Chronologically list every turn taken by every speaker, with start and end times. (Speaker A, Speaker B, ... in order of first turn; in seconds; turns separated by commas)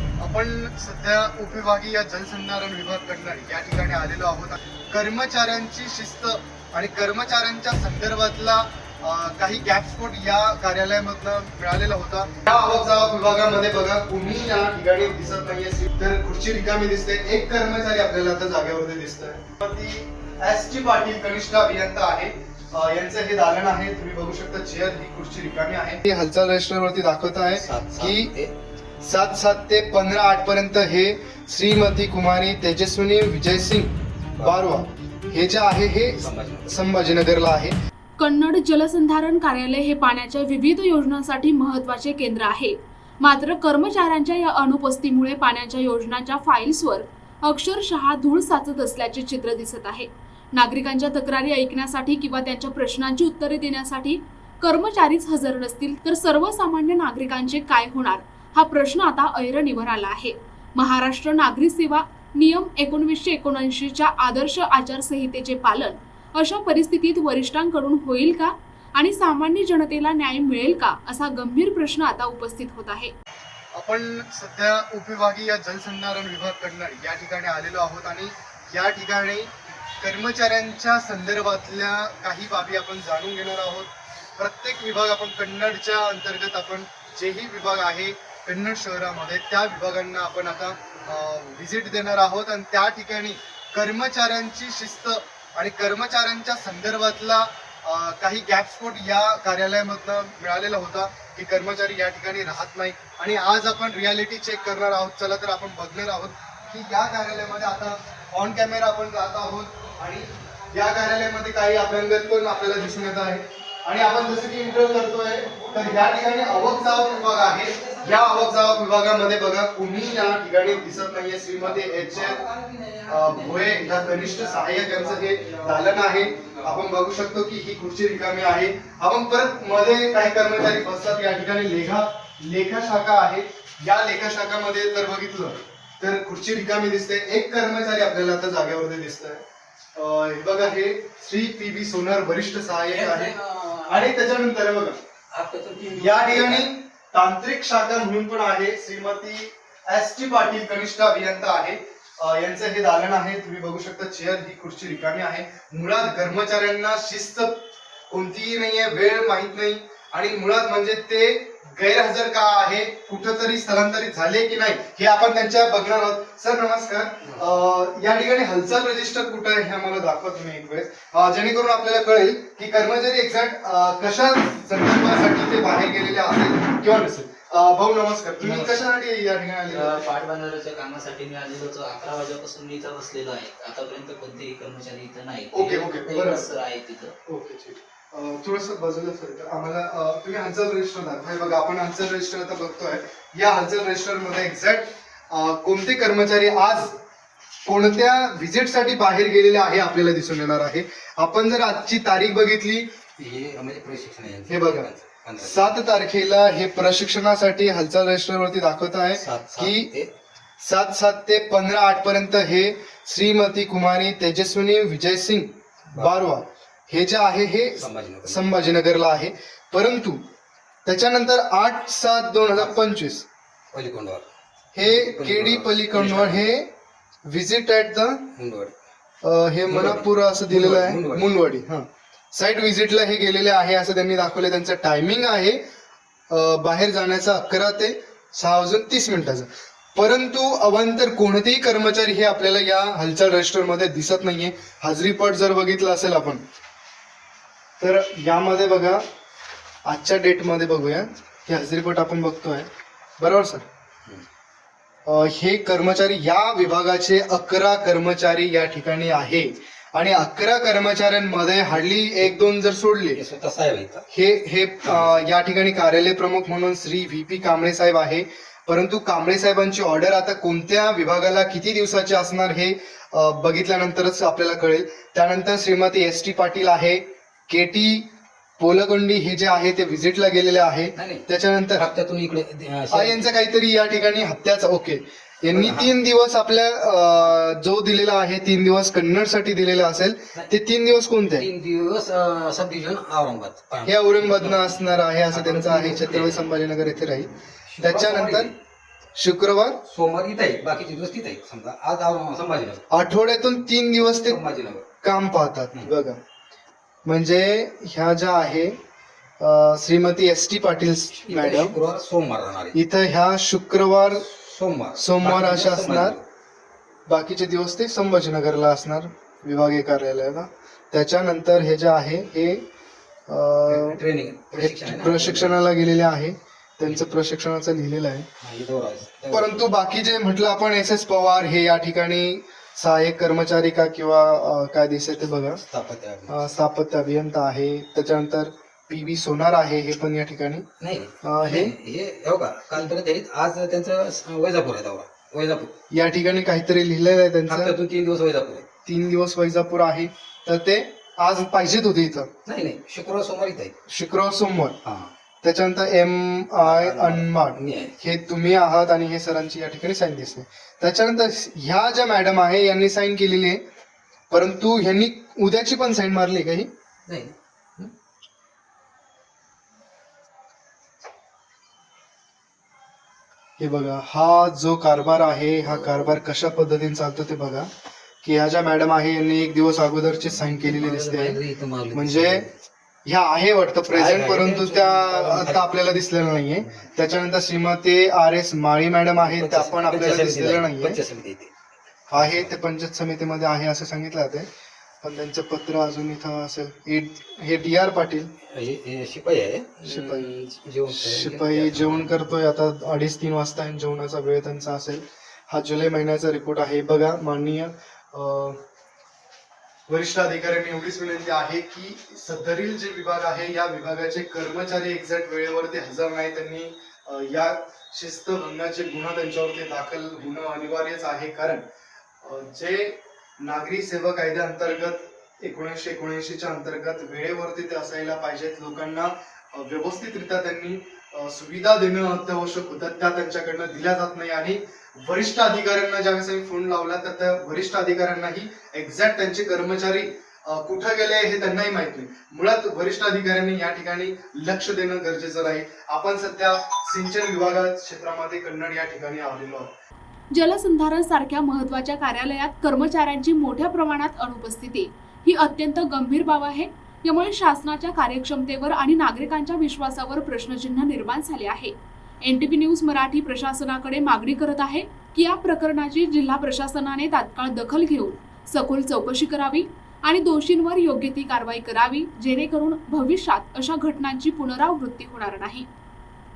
Speaker A: 0.2-28.3, Speaker B: 27.5-28.5, Speaker A: 29.0-37.8, Speaker B: 34.4-34.7, Speaker B: 36.1-37.1, Speaker C: 38.2-73.1, Speaker A: 73.7-122.4, Speaker B: 116.2-118.8, Speaker B: 121.5-126.9, Speaker A: 123.1-139.4, Speaker A: 139.9-143.3, Speaker B: 142.9-144.2, Speaker A: 143.9-145.0, Speaker B: 145.3-146.7, Speaker A: 145.9-180.1, Speaker D: 178.4-178.8, Speaker D: 179.7-187.1, Speaker A: 185.5-186.5, Speaker A: 187.3-197.0, Speaker A: 197.7-202.9, Speaker B: 203.2-205.7, Speaker A: 204.5-209.9, Speaker B: 209.2-210.1, Speaker A: 210.6-220.2, Speaker B: 215.9-216.3, Speaker B: 217.8-218.4, Speaker A: 220.8-223.2, Speaker B: 223.7-224.2, Speaker A: 224.7-226.7, Speaker B: 224.8-226.5, Speaker A: 227.2-228.3, Speaker B: 228.3-228.7, Speaker A: 229.2-235.6, Speaker B: 229.7-231.3, Speaker A: 236.3-246.4, Speaker A: 247.8-249.0, Speaker A: 249.8-253.6, Speaker A: 255.1-263.2, Speaker B: 263.1-264.0, Speaker A: 264.1-281.9, Speaker B: 264.8-265.2, Speaker B: 280.9-281.2, Speaker B: 281.7-283.3, Speaker A: 282.9-291.5, Speaker B: 285.5-286.0, Speaker B: 291.3-296.4, Speaker A: 293.8-298.5, Speaker B: 297.7-298.5, Speaker A: 299.1-299.8, Speaker B: 299.9-302.8, Speaker A: 302.9-304.4, Speaker B: 304.2-304.9, Speaker A: 305.0-306.2, Speaker A: 307.0-308.8, Speaker A: 309.4-311.8, Speaker B: 311.1-312.8, Speaker A: 312.7-314.3, Speaker B: 314.3-316.2, Speaker A: 314.9-316.2, Speaker A: 317.1-322.6, Speaker A: 323.3-324.0, Speaker B: 323.7-325.6, Speaker A: 324.5-328.3, Speaker B: 326.8-327.1, Speaker B: 328.4-329.6, Speaker A: 329.3-335.6, Speaker B: 335.6-336.6, Speaker A: 336.3-340.7, Speaker B: 340.8-345.7, Speaker A: 341.2-341.7, Speaker A: 345.9-347.7, Speaker B: 347.5-348.6, Speaker A: 348.9-352.3, Speaker B: 352.4-353.7, Speaker A: 353.9-354.8, Speaker B: 354.8-355.1, Speaker A: 355.4-363.6, Speaker B: 356.6-357.9, Speaker A: 364.3-366.7, Speaker B: 367.1-367.9, Speaker A: 373.6-377.7, Speaker B: 375.7-376.2, Speaker A: 378.2-381.4, Speaker B: 380.4-382.5, Speaker A: 381.9-382.4, Speaker A: 383.1-391.0, Speaker B: 383.9-385.8, Speaker B: 389.2-391.5, Speaker A: 392.1-394.5, Speaker B: 392.1-392.5, Speaker A: 395.0-398.3, Speaker B: 398.5-402.2, Speaker A: 399.8-400.3, Speaker A: 400.9-408.6, Speaker A: 409.9-421.6, Speaker A: 422.2-449.7, Speaker C: 450.3-475.7